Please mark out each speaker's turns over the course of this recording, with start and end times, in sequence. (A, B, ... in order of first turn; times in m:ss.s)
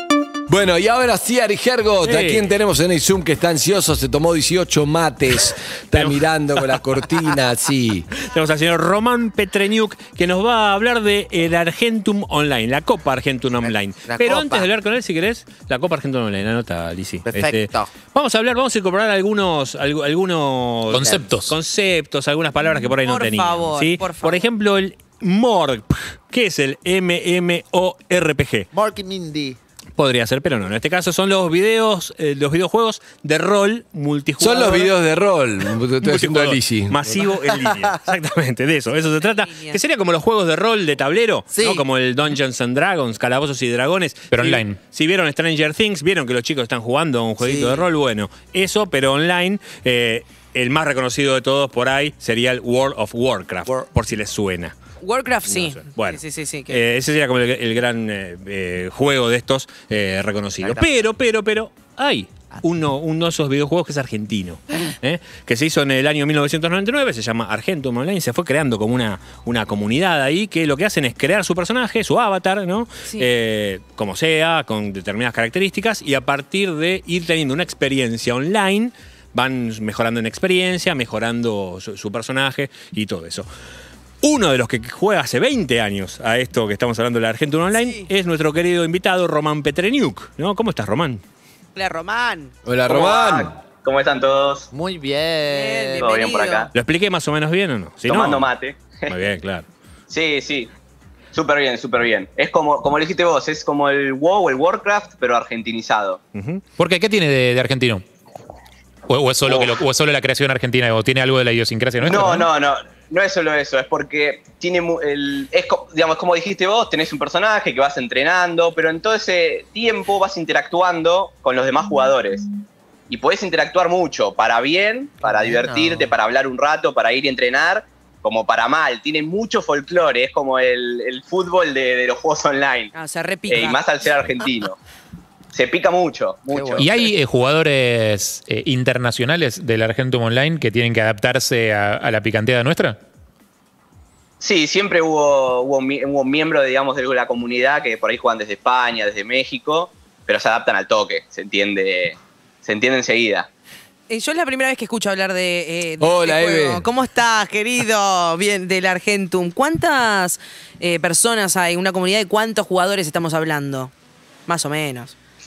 0:00.5-0:08.1 A
0:02.0-0:02.5 B
0:05.9-0:06.7 B
0:08.3-0:28.7 B
0:14.0-0:14.7 C
0:17.2-0:17.9 C
0:20.9-0:21.5 D
0:23.0-0:24.4 E
0:28.7-0:29.6 C
0:30.0-0:34.9 B
0:34.4-0:37.1 A
0:36.0-0:54.7 B
0:37.6-0:37.9 C
0:39.3-0:39.8 E
0:41.5-0:41.8 C
0:44.3-0:44.8 D
0:47.4-0:47.8 C
0:55.0-0:56.8 E
0:55.4-1:23.5 B
1:24.2-1:31.2 B
1:27.7-1:28.1 E
1:31.8-1:32.5 E
1:32.6-1:33.5 A
1:32.9-1:34.7 F
1:34.7-1:36.1 C
1:35.4-1:36.7 E
1:36.0-1:36.7 F
1:36.7-1:38.5 B
1:38.0-1:39.2 F
1:39.1-1:39.6 B
1:40.1-1:40.7 F
1:41.3-1:46.2 F
1:46.3-1:46.6 B
1:46.8-1:48.0 D
1:49.1-1:52.5 D
1:49.4-1:49.8 F
1:52.0-2:02.4 F
2:03.1-2:12.9 F
2:05.2-2:06.1 C
2:12.9-2:13.8 E
2:13.5-2:14.8 F
2:15.5-2:17.1 F
2:16.5-2:16.9 C
2:16.8-2:23.0 D
2:24.4-2:33.5 F
2:34.1-2:43.9 E
2:36.0-2:36.8 A
2:44.5-2:45.1 E